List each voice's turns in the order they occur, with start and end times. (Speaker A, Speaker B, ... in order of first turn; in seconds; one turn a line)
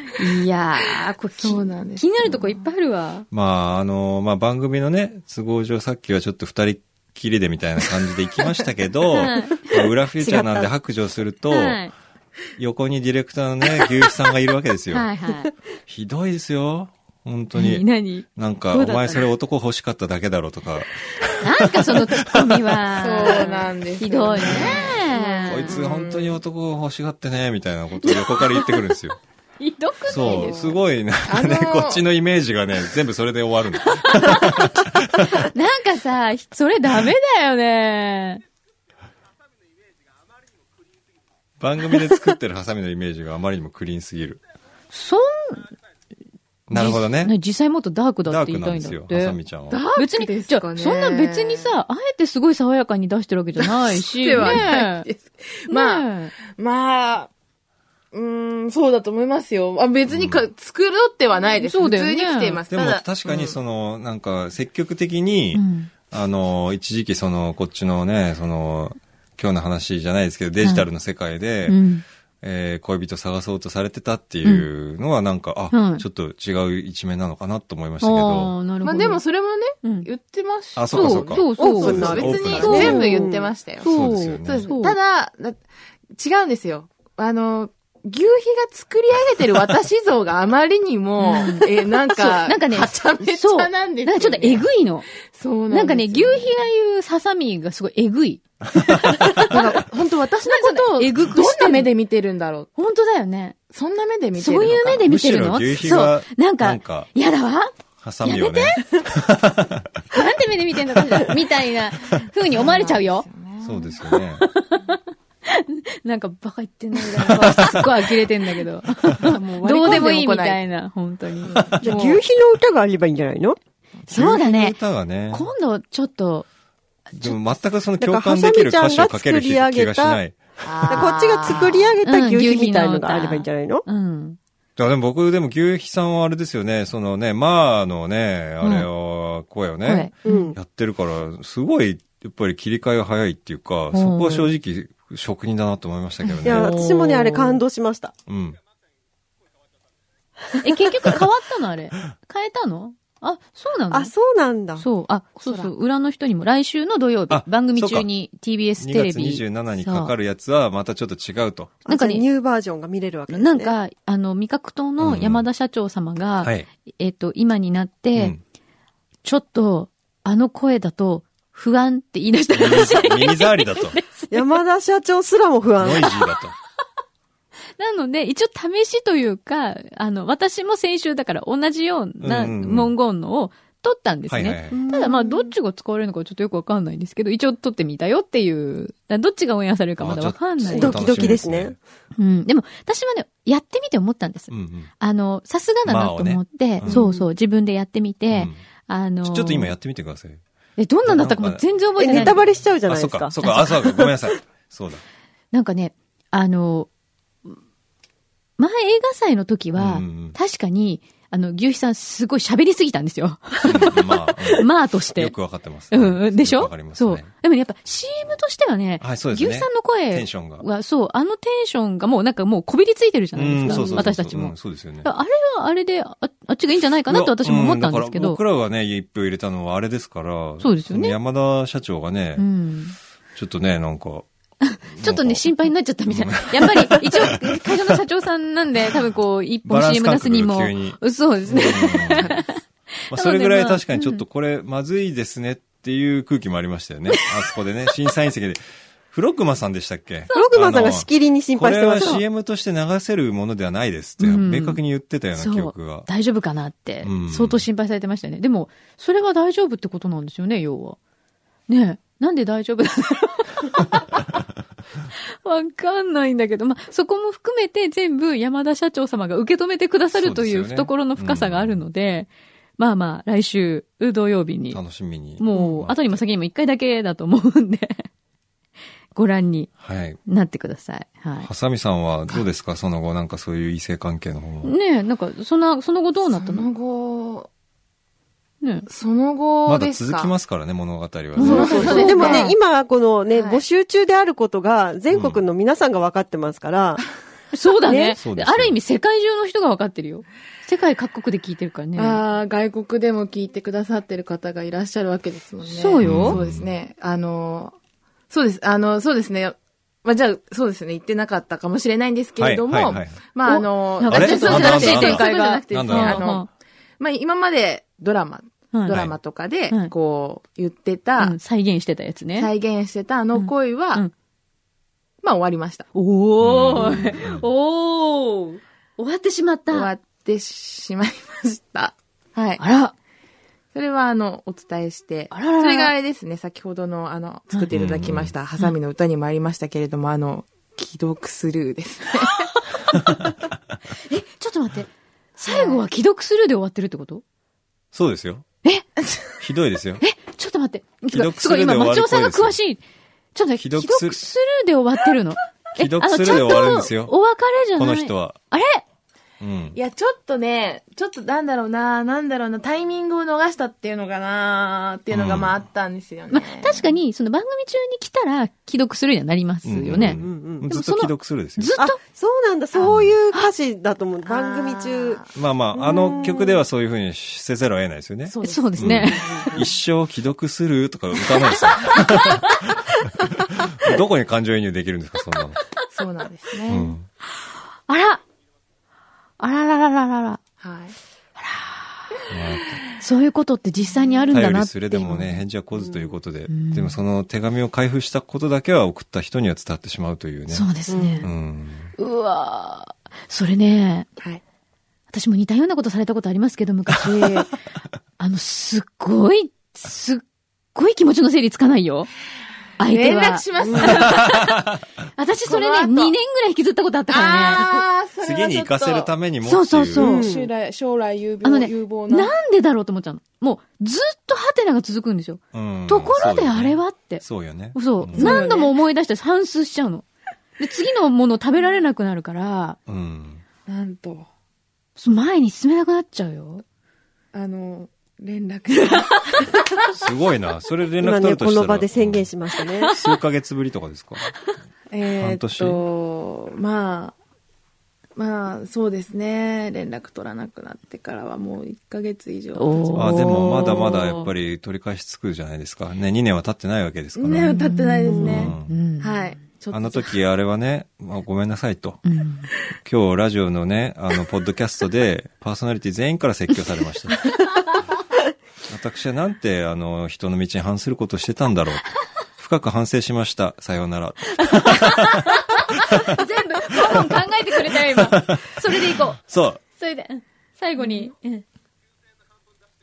Speaker A: 0.1-3.3
Speaker B: 1.4-2.5
Speaker C: 3.3-11.8
Speaker A: 9.1-9.7
Speaker D: 10.2-10.7
Speaker A: 11.5-11.9
Speaker C: 12.6-15.1
Speaker A: 14.9-15.5
Speaker C: 15.9-22.6
Speaker A: 17.5-19.3
Speaker A: 21.4-25.8
Speaker B: 22.9-26.4
Speaker C: 25.5-29.2
Speaker A: 28.0-28.9
Speaker A: 29.6-30.8
Speaker C: 30.1-35.4
Speaker B: 30.2-32.0
Speaker A: 34.0-34.6
Speaker A: 35.2-38.4
Speaker C: 41.6-44.4
Speaker A: 44.9-45.7
Speaker C: 46.7-47.3
Speaker A: 46.7-49.4
Speaker C: 48.2-49.9
Speaker B: 49.7-51.8
Speaker A: 50.0-55.1
Speaker B: 53.6-57.3
Speaker A: 55.7-56.3
Speaker B: 58.1-63.6
Speaker C: 60.1-60.5
Speaker A: 61.6-62.6
Speaker C: 62.7-71.8
Speaker A: 65.5-65.9
Speaker A: 70.6-70.9
Speaker A: 71.7-72.0
Speaker C: 72.4-78.5
Speaker A: 75.7-76.0
Speaker A: 78.0-79.2
Speaker B: 78.8-85.6
Speaker A: 79.8-80.1
Speaker C: 80.8-83.0
Speaker A: 80.9-83.2
Speaker D: 81.6-83.5
Speaker A: 83.8-85.0
Speaker C: 83.8-84.7
Speaker B: 86.2-94.7
Speaker A: 91.2-95.1
Speaker B: 95.3-96.6
Speaker A: 95.7-99.8
Speaker B: 99.3-102.7
Speaker A: 100.4-101.9
Speaker A: 102.8-103.6
Speaker B: 103.7-105.1
Speaker A: 104.4-107.7
Speaker C: 105.0-107.1
Speaker C: 108.0-110.0
Speaker A: 108.2-108.9
Speaker A: 110.1-113.3
Speaker B: 112.4-114.0
Speaker C: 113.6-114.5
Speaker A: 114.4-121.8
Speaker C: 117.3-117.9
Speaker B: 119.2-120.6
Speaker B: 121.4-122.2
Speaker C: 121.6-121.9
Speaker D: 121.8-123.6
Speaker B: 124.0-124.4
Speaker A: 124.1-124.8
Speaker C: 124.1-125.5
Speaker A: 125.3-126.5
Speaker C: 127.2-131.1
Speaker D: 128.0-130.2
Speaker B: 130.6-132.0
Speaker D: 130.9-133.8
Speaker A: 132.1-134.4
Speaker C: 134.8-146.9
Speaker A: 138.6-138.9
Speaker A: 139.9-140.5
Speaker D: 140.2-140.6
Speaker A: 143.9-144.5
Speaker A: 146.3-147.5
Speaker D: 146.4-148.1
Speaker C: 148.3-148.6
Speaker A: 150.6-154.1
Speaker D: 153.9-154.8
Speaker A: 154.8-160.1
Speaker B: 155.4-155.7
Speaker C: 157.3-158.1
Speaker C: 158.8-161.8
Speaker D: 161.8-163.8
Speaker A: 161.9-162.2
Speaker A: 163.3-168.4
Speaker C: 165.0-165.4
Speaker C: 168.2-168.4
Speaker A: 169.2-174.5
Speaker C: 172.6-174.0
Speaker D: 174.3-176.2
Speaker C: 175.8-176.6
Speaker A: 177.8-191.2
Speaker C: 182.2-182.9
Speaker C: 184.3-184.8
Speaker D: 184.7-185.5
Speaker C: 190.0-191.8
Speaker D: 190.7-191.8
Speaker A: 192.2-199.7
Speaker C: 194.5-194.9
Speaker C: 195.8-197.0
Speaker D: 196.9-197.3
Speaker C: 198.3-198.6
Speaker C: 199.2-200.4
Speaker A: 200.8-202.4
Speaker C: 201.1-205.0
Speaker D: 202.0-204.1
Speaker A: 203.4-203.8
Speaker A: 205.5-206.9
Speaker A: 208.6-215.3
Speaker C: 209.8-210.4
Speaker C: 213.6-217.3
Speaker A: 215.9-228.4
Speaker C: 219.0-220.7
Speaker C: 223.3-225.1
Speaker B: 223.7-224.0
Speaker C: 227.1-232.5
Speaker A: 230.6-231.2
Speaker A: 232.4-233.0
Speaker C: 233.3-234.3
Speaker A: 234.6-244.2
Speaker C: 234.9-235.5
Speaker C: 236.1-238.0
Speaker C: 239.7-242.4
Speaker C: 243.1-256.1
Speaker A: 250.3-250.6
Speaker D: 250.3-252.2
Speaker A: 254.2-254.8
Speaker A: 255.3-261.0
Speaker C: 257.0-257.6
Speaker A: 261.7-264.1
Speaker A: 265.4-274.8
Speaker C: 270.1-271.8
Speaker C: 274.7-276.2
Speaker A: 275.4-278.1
Speaker A: 279.1-279.7
Speaker C: 279.8-280.2
Speaker A: 280.3-281.5
Speaker C: 281.4-284.8
Speaker A: 284.6-286.7
Speaker B: 286.3-287.5
Speaker A: 288.6-288.9
Speaker B: 288.9-290.3
Speaker C: 289.7-292.1
Speaker A: 291.4-292.6
Speaker B: 291.4-292.5
Speaker D: 291.4-297.1
Speaker B: 293.3-293.6
Speaker C: 295.1-295.4
Speaker A: 297.5-302.2
Speaker D: 297.9-298.2
Speaker C: 298.2-298.8
Speaker B: 302.0-307.8
Speaker A: 305.6-306.4
Speaker C: 306.0-306.7
Speaker B: 308.3-321.4
Speaker C: 312.4-313.2
Speaker A: 313.5-316.5
Speaker C: 314.1-316.3
Speaker A: 318.7-319.0
Speaker C: 318.9-319.2
Speaker A: 321.2-322.5
Speaker B: 322.4-324.1
Speaker A: 323.4-324.1
Speaker B: 325.2-325.9
Speaker A: 325.9-329.9
Speaker C: 326.4-327.4
Speaker B: 329.7-332.6
Speaker A: 332.6-332.9
Speaker B: 333.7-342.6
Speaker A: 335.3-335.9
Speaker C: 337.7-338.3
Speaker A: 344.1-347.2
Speaker B: 345.5-345.9
Speaker C: 347.9-348.4
Speaker B: 349.0-349.3
Speaker C: 349.4-350.0
Speaker A: 350.0-352.8
Speaker C: 351.1-352.6
Speaker A: 353.4-358.8
Speaker C: 353.6-354.2
Speaker C: 355.8-357.1
Speaker C: 357.8-358.4
Speaker C: 359.4-359.8
Speaker B: 359.8-366.9
Speaker C: 365.1-365.6
Speaker A: 366.3-372.0
Speaker C: 369.6-371.8
Speaker D: 370.1-370.7
Speaker D: 371.8-375.2
Speaker C: 372.9-373.1
Speaker B: 374.3-375.3
Speaker C: 375.4-385.6
Speaker D: 375.8-376.6
Speaker B: 378.3-379.5
Speaker A: 378.4-379.4
Speaker D: 379.1-379.7
Speaker A: 381.9-382.4
Speaker B: 385.9-386.9
Speaker C: 386.7-387.1
Speaker A: 387.9-388.2
Speaker A: 389.4-390.4
Speaker B: 390.6-390.9
Speaker A: 391.4-392.1
Speaker C: 392.3-392.8
Speaker A: 393.0-395.4
Speaker C: 394.3-400.7
Speaker A: 396.5-397.0
Speaker A: 400.5-401.3
Speaker D: 400.9-401.2
Speaker C: 401.2-401.9
Speaker A: 402.0-404.1
Speaker A: 405.1-407.5
Speaker A: 408.2-412.1
Speaker A: 412.8-414.6
Speaker B: 412.8-414.3
Speaker D: 413.6-414.0
Speaker C: 414.2-414.8
Speaker A: 415.2-417.8
Speaker B: 415.5-416.1
Speaker B: 417.1-419.1
Speaker C: 418.2-420.1
Speaker A: 419.4-420.3
Speaker D: 420.0-420.5
Speaker B: 420.0-422.3
Speaker A: 421.4-430.1
Speaker C: 425.5-428.3
Speaker B: 428.1-428.8
Speaker A: 430.6-432.8
Speaker C: 432.9-433.4
Speaker B: 433.7-434.3
Speaker A: 435.0-436.6
Speaker B: 437.3-439.5
Speaker A: 438.9-439.3
Speaker C: 439.9-442.3
Speaker D: 441.0-442.9
Speaker C: 442.9-444.3
Speaker B: 444.9-447.2
Speaker C: 445.2-445.8
Speaker B: 448.2-453.9
Speaker A: 452.6-454.3
Speaker C: 452.9-457.5
Speaker B: 457.2-460.2
Speaker A: 457.4-459.2
Speaker C: 458.2-458.7
Speaker C: 459.7-462.0
Speaker A: 462.1-462.5
Speaker C: 462.8-467.4
Speaker C: 468.7-476.1
Speaker A: 474.4-479.2
Speaker C: 476.9-479.6
Speaker A: 479.8-481.4